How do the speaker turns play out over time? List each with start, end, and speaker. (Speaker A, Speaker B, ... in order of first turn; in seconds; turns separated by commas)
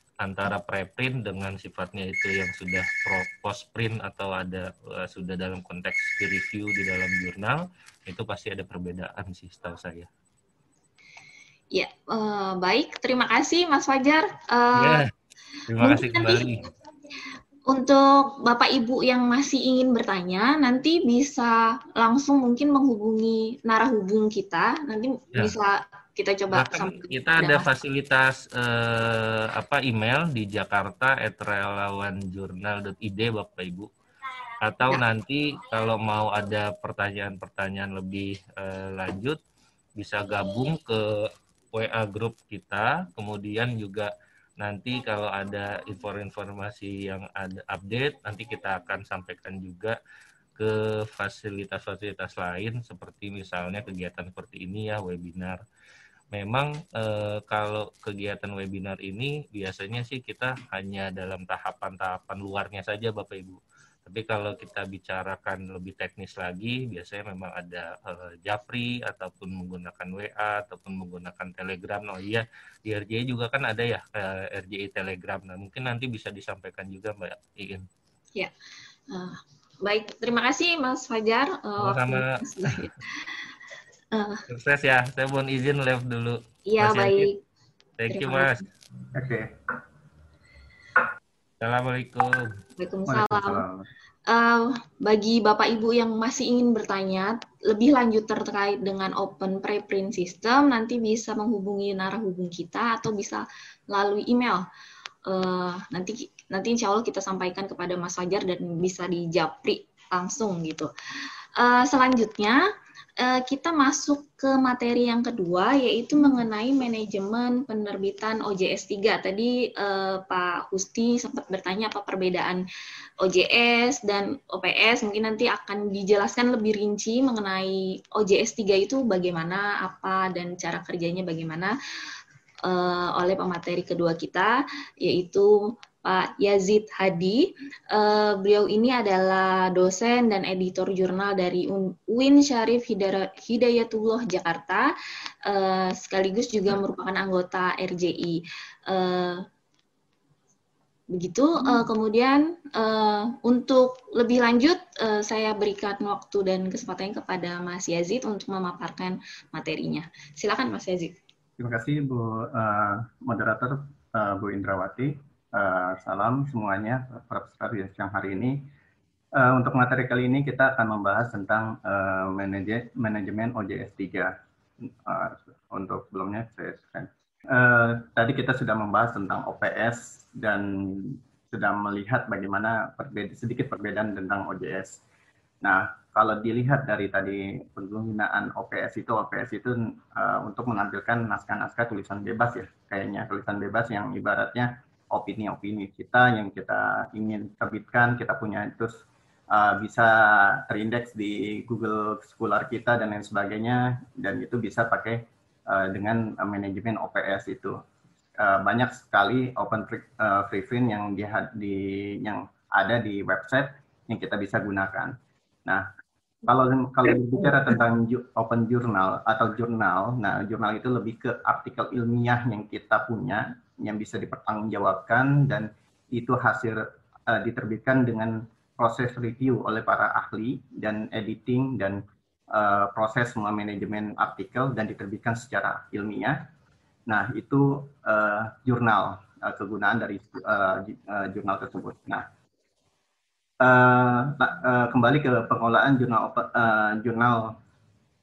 Speaker A: 0.2-10.1, Speaker B: 11.7-15.0, Speaker A: 14.8-15.1, Speaker A: 15.7-16.7, Speaker B: 15.8-16.6, Speaker B: 17.7-27.7, Speaker A: 26.5-33.9, Speaker A: 34.6-39.4, Speaker A: 40.0-50.0, Speaker A: 50.6-55.6, Speaker A: 56.3-77.9, Speaker B: 79.1-83.3, Speaker A: 81.8-82.8, Speaker B: 84.1-84.4, Speaker A: 84.5-87.3, Speaker B: 86.7-87.4, Speaker A: 88.0-88.6, Speaker B: 88.1-88.7, Speaker C: 89.1-89.5, Speaker A: 91.6-92.5, Speaker B: 92.8-93.6, Speaker C: 93.1-93.9, Speaker B: 94.3-104.7, Speaker B: 105.3-110.9, Speaker B: 111.6-112.6, Speaker B: 113.2-122.6, Speaker B: 123.2-131.8, Speaker B: 132.7-144.9, Speaker B: 145.5-149.4, Speaker B: 151.1-161.2, Speaker C: 161.6-168.6, Speaker C: 169.4-174.3, Speaker C: 175.0-185.0, Speaker C: 185.6-207.8, Speaker C: 208.4-215.2, Speaker C: 216.4-232.0, Speaker C: 232.5-236.4, Speaker C: 237.1-242.3, Speaker C: 243.6-247.6